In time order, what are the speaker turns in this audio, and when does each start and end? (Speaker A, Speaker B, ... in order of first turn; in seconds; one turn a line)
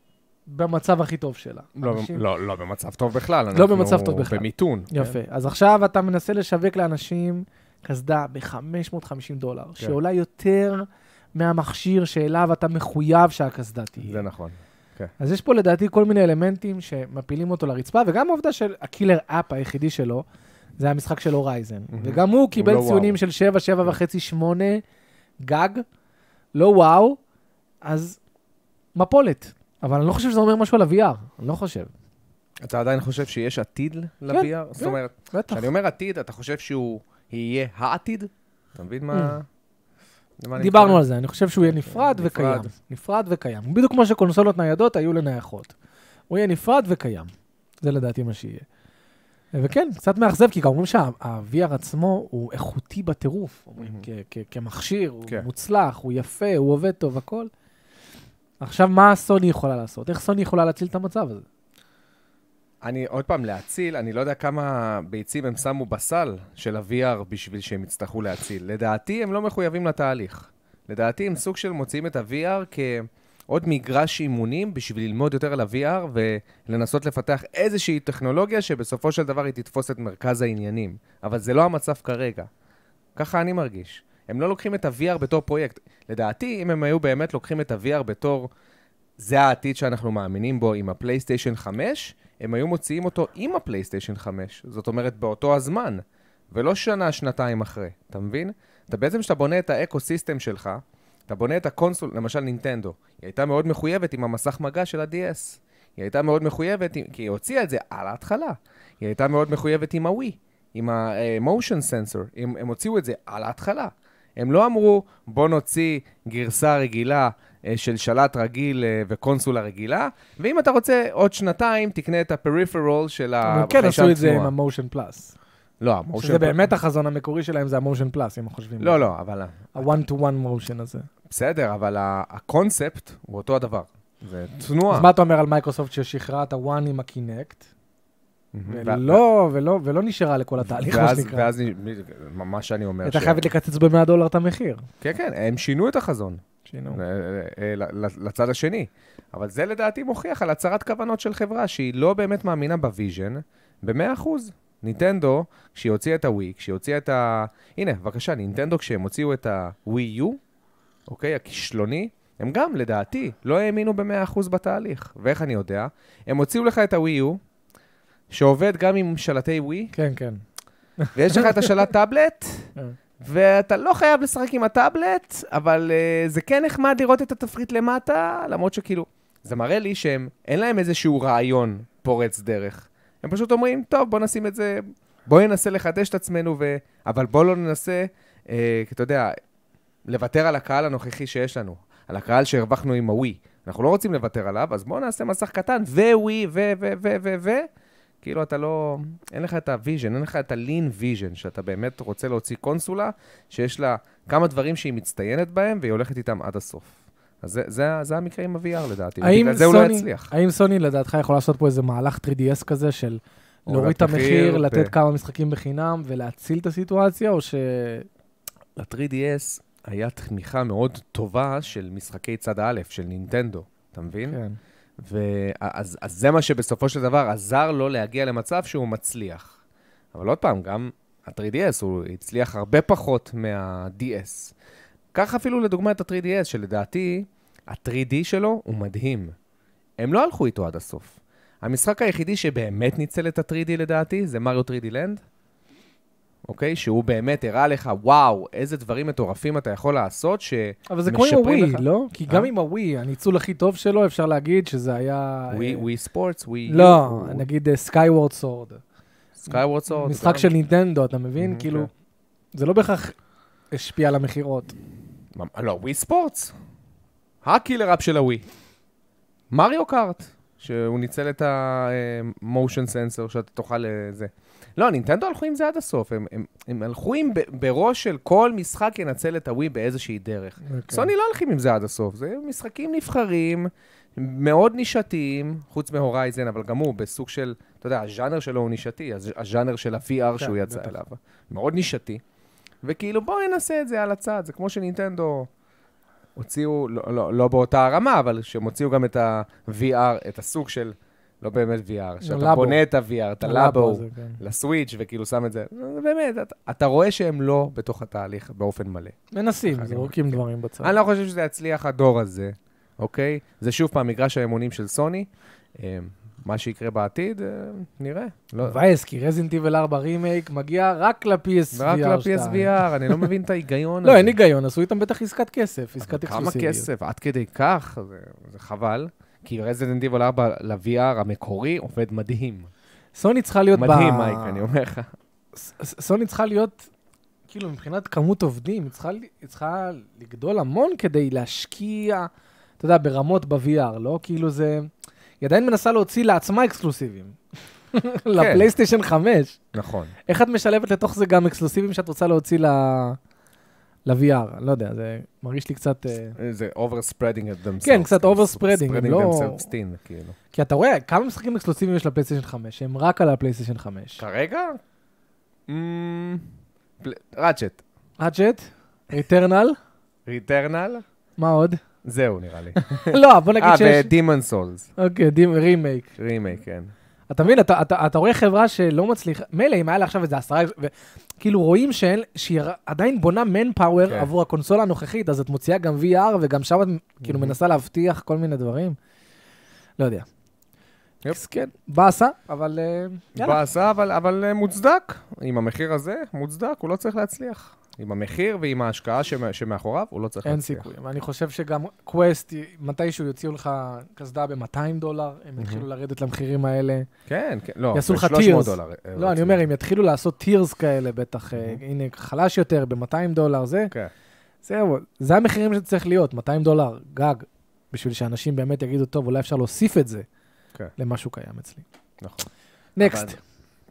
Speaker A: 0.5-2.2
Speaker B: 1.8-5.2
Speaker A: 3.5-14.3
Speaker B: 14.0-15.1
Speaker A: 15.2-20.2
Speaker A: 20.8-24.8
Speaker B: 21.9-23.2
Speaker A: 25.4-25.8
Speaker A: 26.6-27.2
Speaker A: 27.8-28.2
Speaker A: 29.0-31.9
Speaker B: 32.6-39.5
Speaker A: 34.3-35.7
Speaker B: 40.4-41.0
Speaker A: 40.6-45.7
Speaker B: 41.6-42.7
Speaker A: 46.3-47.3
Speaker A: 47.8-48.7
Speaker A: 49.5-57.5
Speaker B: 53.8-54.1
Speaker A: 58.6-61.5
Speaker B: 62.8-82.5
Speaker B: 83.2-88.5
Speaker B: 89.2-124.5
Speaker A: 123.4-125.3
Speaker B: 125.8-126.6
Speaker A: 126.2-129.0
Speaker B: 128.8-129.9
Speaker A: 129.7-131.1
Speaker B: 131.3-135.1
Speaker A: 134.9-137.7
Speaker B: 138.5-139.2
Speaker A: 138.7-141.5
Speaker B: 140.7-143.4
Speaker A: 143.0-144.8
Speaker B: 145.0-146.4
Speaker A: 146.7-147.0
Speaker B: 146.9-160.4
Speaker B: 161.1-167.4
Speaker B: 168.3-169.9
Speaker A: 169.9-170.4
Speaker A: 171.0-171.8
Speaker B: 171.2-172.7
Speaker B: 173.2-189.3
Speaker B: 190.1-197.7
Speaker B: 198.2-210.3
Speaker A: 209.2-218.1
Speaker B: 213.7-214.9
Speaker B: 218.8-224.4
Speaker A: 224.3-224.6
Speaker B: 225.0-229.6
Speaker B: 230.1-234.5
Speaker B: 235.1-239.3
Speaker B: 240.0-245.2
Speaker B: 246.5-252.5
Speaker A: 250.9-255.8
Speaker B: 255.5-257.4
Speaker A: 256.7-258.8
Speaker B: 259.4-260.5
Speaker A: 259.5-261.9
Speaker B: 261.4-261.9
Speaker A: 262.6-263.2
Speaker A: 263.7-264.8
Speaker B: 265.4-266.5
Speaker B: 267.4-268.4
Speaker B: 269.5-292.2
Speaker A: 280.6-281.1
Speaker A: 290.4-291.0
Speaker B: 292.8-295.5
Speaker B: 296.4-318.8
Speaker A: 302.2-302.8
Speaker A: 303.4-304.4
Speaker A: 309.3-310.9
Speaker A: 318.6-323.3
Speaker B: 321.7-324.4
Speaker A: 324.0-326.9
Speaker B: 326.0-332.7
Speaker A: 333.1-334.7
Speaker B: 333.7-335.1
Speaker A: 335.6-336.9
Speaker A: 337.5-342.3
Speaker A: 342.8-344.9
Speaker A: 345.4-347.4
Speaker A: 347.9-349.6
Speaker B: 348.4-348.7
Speaker B: 349.7-350.1
Speaker A: 350.3-353.2
Speaker A: 354.1-356.4
Speaker B: 356.4-360.4
Speaker A: 357.8-359.7
Speaker A: 360.5-364.2
Speaker B: 364.2-364.8
Speaker B: 365.7-366.5
Speaker B: 367.0-367.8
Speaker A: 368.2-369.8
Speaker B: 370.3-371.0
Speaker A: 371.4-371.8
Speaker B: 372.0-374.9
Speaker A: 372.8-374.1
Speaker A: 375.0-376.1
Speaker B: 376.2-376.9
Speaker A: 377.3-389.0
Speaker B: 384.1-384.3
Speaker B: 387.2-387.6
Speaker A: 390.0-390.3
Speaker A: 391.3-393.6
Speaker B: 393.4-400.9
Speaker A: 400.4-407.1
Speaker B: 405.6-405.8
Speaker B: 407.3-409.6
Speaker A: 407.9-413.9
Speaker A: 414.6-420.3
Speaker A: 421.0-421.9
Speaker B: 422.2-422.5
Speaker A: 423.0-423.4
Speaker B: 423.0-423.4